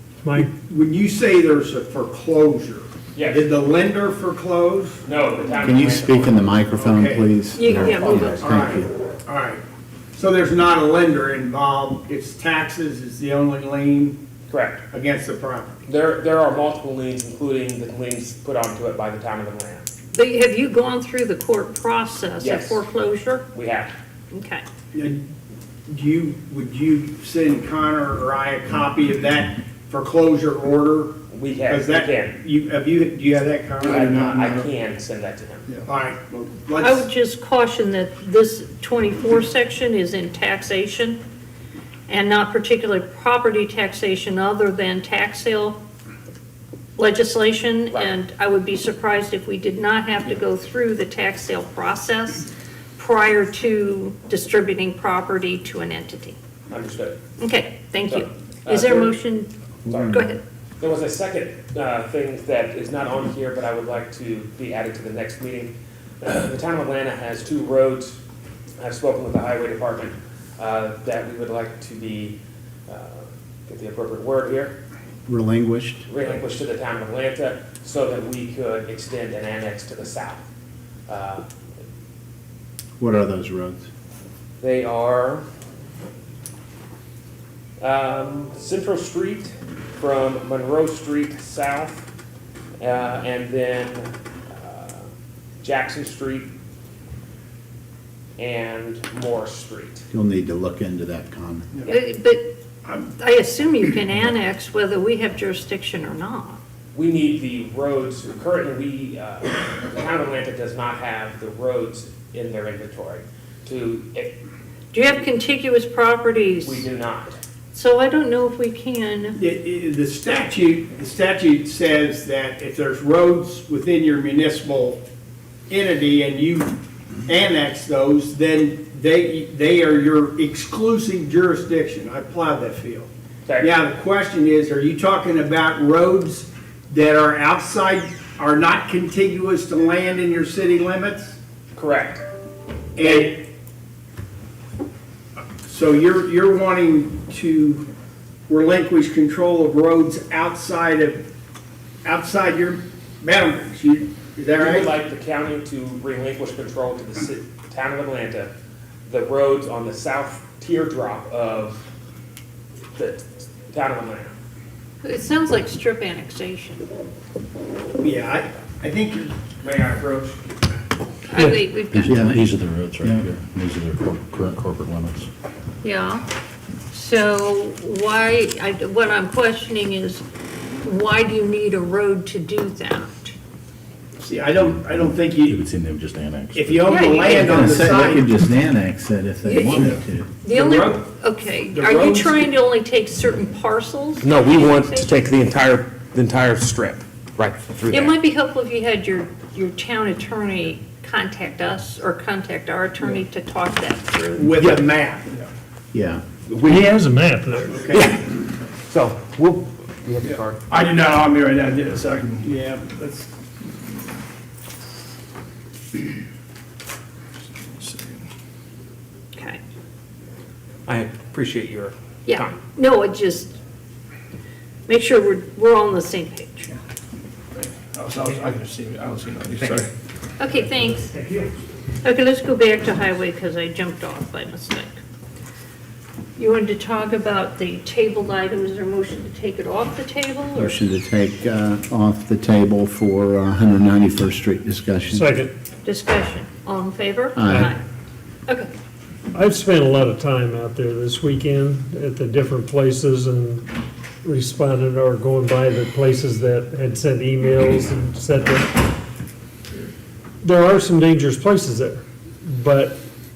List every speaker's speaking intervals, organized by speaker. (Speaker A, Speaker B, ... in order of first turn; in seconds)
Speaker A: 0.2-0.5, 206.6-207.8, 245.1-245.5, 249.3-253.7, 254.2-258.9, 260.4-263.0
Speaker B: 0.4-5.0, 6.8-9.6, 10.2-14.2, 14.9-15.8, 24.9-25.2, 25.9-34.6, 35.9-37.1, 102.8-103.1, 119.4-125.0, 125.7-126.8, 127.3-133.1, 133.6-141.4, 143.0-143.4, 145.7-147.8, 148.5-151.2, 152.0-154.9, 168.0-169.3, 184.2-185.6, 186.5-188.3, 189.7-191.0, 191.7-192.5, 204.3-205.4, 207.7-208.1, 212.4-213.3
Speaker C: 3.1-3.5, 5.0-6.6, 14.5-14.8, 15.9-19.9, 22.4-22.8, 23.5-23.9, 31.3-32.4, 33.8-35.7, 56.7-57.2, 58.1-59.1, 59.9-60.3, 60.8-68.2, 68.8-74.8, 76.1-80.4, 81.1-81.5, 84.6-85.5, 87.8-92.0, 92.8-95.1, 95.6-96.5, 98.4-100.0, 106.9-114.4, 116.6-117.4, 141.8-142.2, 143.0-143.4, 154.6-158.5, 159.1-161.8, 162.9-164.3, 169.6-170.4, 194.2-198.2, 206.5-206.9, 207.9-210.6, 220.9-222.6
Speaker D: 5.6-8.9, 75.3-76.0, 83.0-83.9, 100.1-101.7, 172.0-172.5, 187.2-190.3, 205.9-206.2, 240.6-245.3, 247.4-247.7
Speaker E: 7.5-8.6, 20.1-23.4, 24.3-24.6, 36.8-41.2, 42.1-45.8, 47.0-56.4, 57.4-60.4, 101.9-102.5, 103.1-106.6, 114.9-116.9, 117.7-119.4, 165.0-166.9, 171.3-172.2, 175.8-176.2, 176.9-180.2, 180.8-183.3, 186.9-187.7, 189.4-195.2, 197.9-204.5, 219.3-219.6, 222.3-223.6, 224.9-226.8, 230.4-231.2, 232.0-235.0, 236.4-240.8, 245.8-247.8
Speaker F: 34.1-34.6, 210.7-212.5, 217.6-218.2, 227.6-229.9
Speaker G: 171.9-175.3, 185.5-186.9